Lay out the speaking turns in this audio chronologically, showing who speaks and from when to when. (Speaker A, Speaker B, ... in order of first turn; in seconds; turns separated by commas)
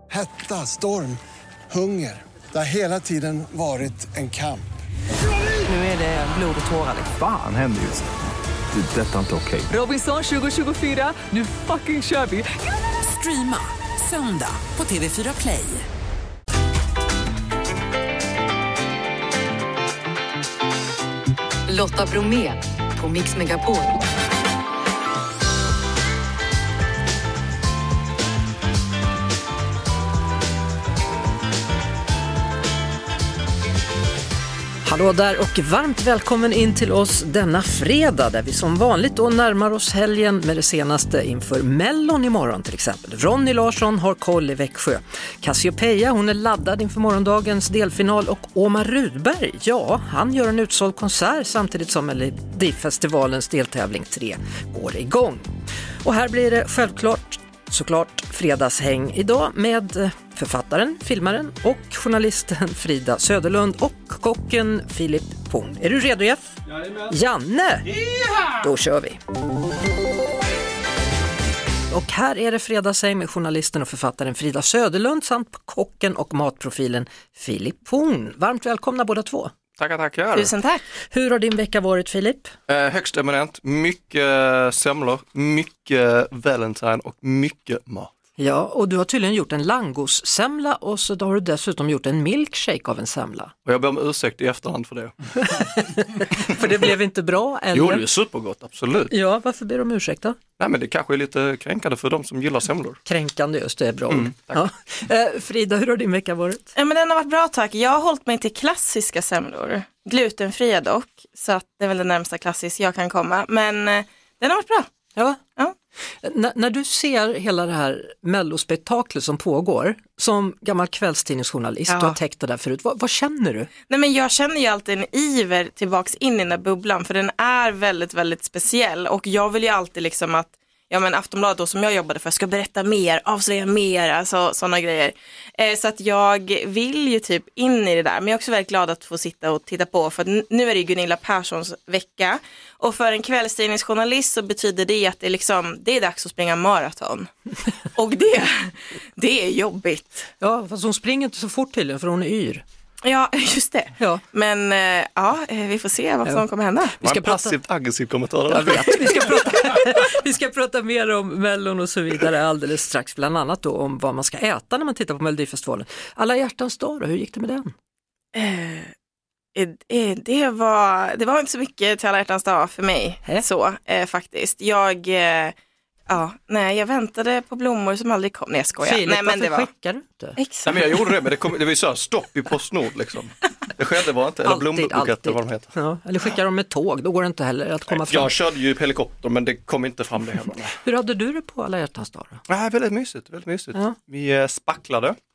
Speaker A: 0.1-4.7, Speaker B: 5.7-7.0, Speaker C: 6.5-8.1, Speaker C: 8.7-9.8, Speaker B: 9.7-15.8, Speaker D: 21.7-24.0, Speaker E: 34.8-55.5, Speaker E: 56.0-66.5, Speaker E: 67.0-68.0, Speaker E: 68.5-69.2, Speaker E: 71.9-79.5, Speaker F: 79.8-80.5, Speaker G: 80.3-80.8, Speaker E: 81.1-82.5, Speaker F: 82.7-88.1, Speaker E: 88.4-93.5, Speaker F: 93.6-95.5, Speaker E: 95.4-98.0, Speaker F: 97.7-99.1, Speaker E: 99.1-100.4, Speaker F: 100.6-103.0, Speaker E: 103.0-106.7, Speaker F: 104.1-104.7, Speaker G: 106.8-114.9, Speaker E: 116.2-123.7, Speaker G: 121.9-122.2, Speaker G: 123.9-147.3, Speaker G: 147.9-150.3, Speaker E: 150.4-152.6, Speaker G: 153.0-157.0, Speaker E: 157.0-157.5, Speaker F: 157.0-159.4, Speaker E: 158.5-167.7, Speaker G: 168.3-168.9, Speaker G: 169.5-175.5, Speaker G: 176.1-179.7, Speaker E: 178.8-180.4, Speaker G: 180.4-181.0, Speaker F: 180.7-185.7, Speaker E: 184.4-188.3, Speaker F: 187.9-190.8, Speaker E: 190.8-192.4, Speaker F: 192.5-195.2